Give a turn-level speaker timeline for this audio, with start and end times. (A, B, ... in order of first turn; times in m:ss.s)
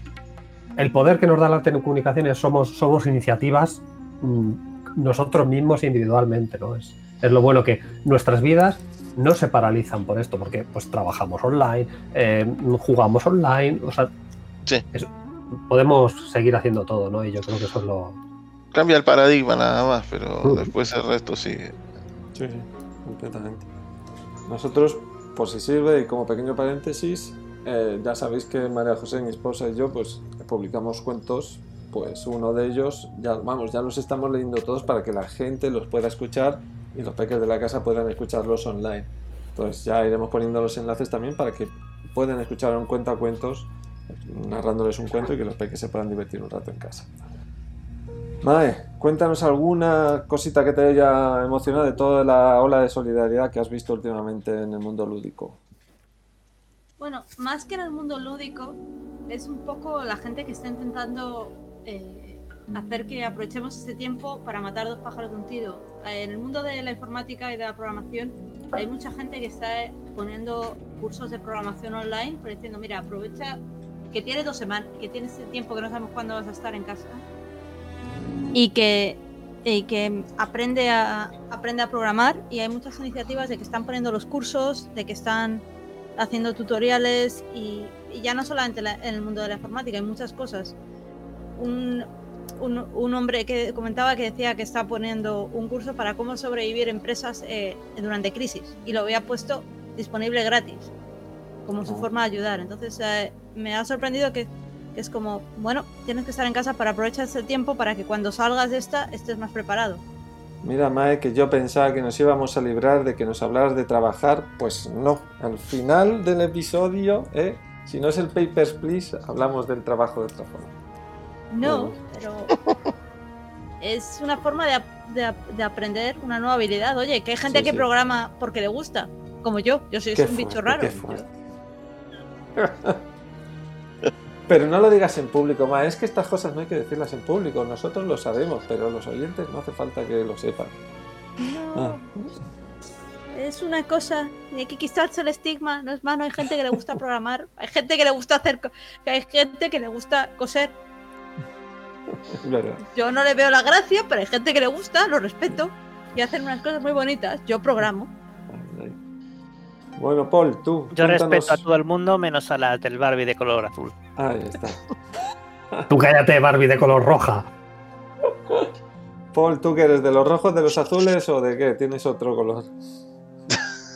0:00.8-0:14.1 A
0:14.9-0:18.2 A
0:18.7-0:21.8 B
0:20.4-0:20.7 A
0:22.4-0:23.7 C
0:24.5-0:47.1 C
0:48.4-0:55.6 C
0:57.0-1:13.6 D
1:14.1-1:17.2 D
1:18.5-1:25.6 D
1:26.2-1:30.8 D
1:31.6-1:32.1 D
1:32.6-1:40.9 D
1:41.7-1:50.0 D
1:50.6-2:00.7 C
2:01.5-2:02.5 D
2:01.6-2:02.0 C
2:03.8-2:11.2 D
2:07.5-2:07.9 C
2:10.1-2:11.3 C
2:12.6-2:13.0 C
2:14.5-2:20.8 C
2:21.4-2:22.1 D
2:21.8-2:22.3 C
2:23.3-2:30.7 D
2:32.1-2:32.8 C
2:32.9-2:38.1 D
2:38.5-2:39.0 C
2:40.0-2:41.6 C
2:40.9-2:44.0 E
2:44.2-2:44.9 C
2:45.9-2:47.5 A
2:49.3-2:52.7 C